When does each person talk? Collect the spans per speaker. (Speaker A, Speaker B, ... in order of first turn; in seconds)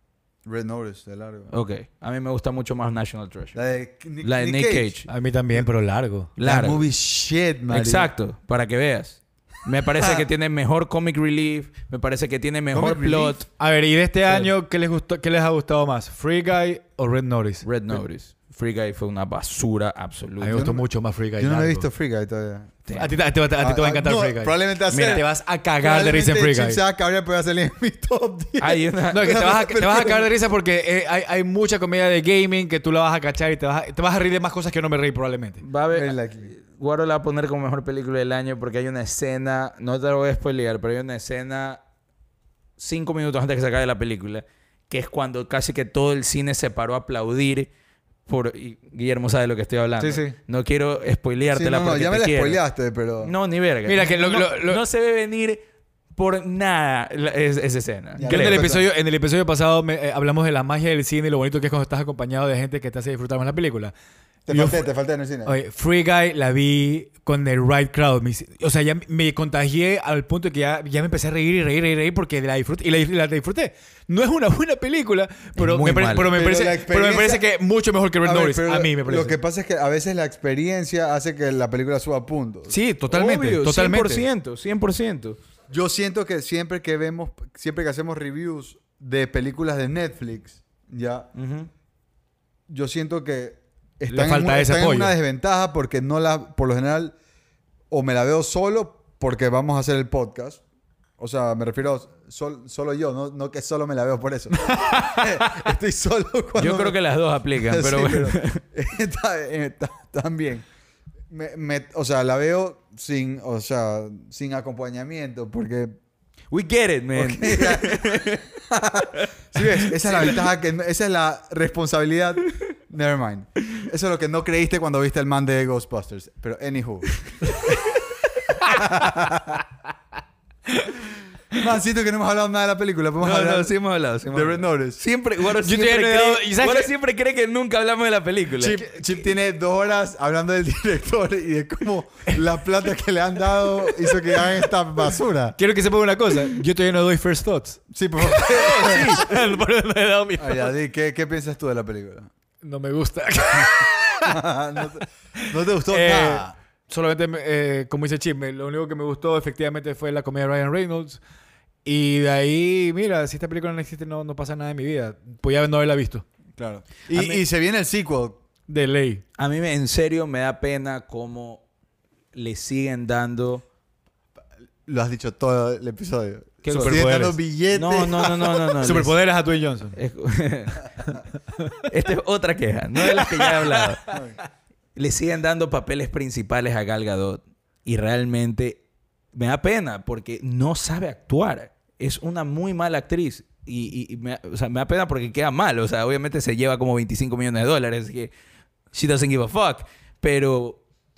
Speaker A: 0.5-1.5, 3.5-4.9, 6.4-8.1, 10.0-10.3, 12.7-13.4, 20.5-20.8, 21.4-22.8, 23.6-25.3, 25.8-30.3, 35.9-36.5, 51.5-53.3, 58.2-58.9, 64.5-65.6, 76.3-77.4, 78.2-82.8, 85.7-91.3, 92.7-97.2, 97.9-100.6, 101.2-107.0, 107.6-110.7, 111.3-116.0, 117.2-127.1, 128.6-129.6, 131.5-133.7, 134.3-135.0, 138.6-145.6, 147.9-149.3, 150.4-152.3, 154.2-156.6, 166.6-168.4, 174.9-178.8, 184.1-184.4
Speaker B: 1.5-3.6, 4.2-5.1, 6.4-6.8, 7.7-13.5, 17.6-20.7, 22.9-23.1, 24.9-25.2, 28.6-29.6, 35.6-41.8, 42.8-47.7, 48.3-52.6, 53.2-55.6, 56.2-58.7, 75.6-76.3, 83.1-85.4, 91.3-91.7, 106.6-108.6, 116.5-118.4, 119.2-120.4, 133.2-138.8, 148.8-149.2, 167.1-167.4, 169.4-171.6, 172.3-173.6, 176.7-177.1, 177.7-179.1, 179.9-180.9, 181.9-184.1, 185.0-188.8, 189.3-198.3, 198.9-200.8
Speaker C: 5.1-6.3, 13.6-17.7, 20.4-21.9, 23.0-26.8, 29.1-35.6, 50.0-50.4, 53.9-54.8, 58.2-63.9, 64.5-64.9, 65.5-79.4, 82.7-84.2, 94.1-95.1, 104.7-105.3, 135.6-136.9, 144.1-144.4, 145.6-150.7, 152.6-154.4, 155.4-161.2, 161.8-166.2, 168.7-169.2, 176.7-177.4, 178.8-180.0, 183.0-184.2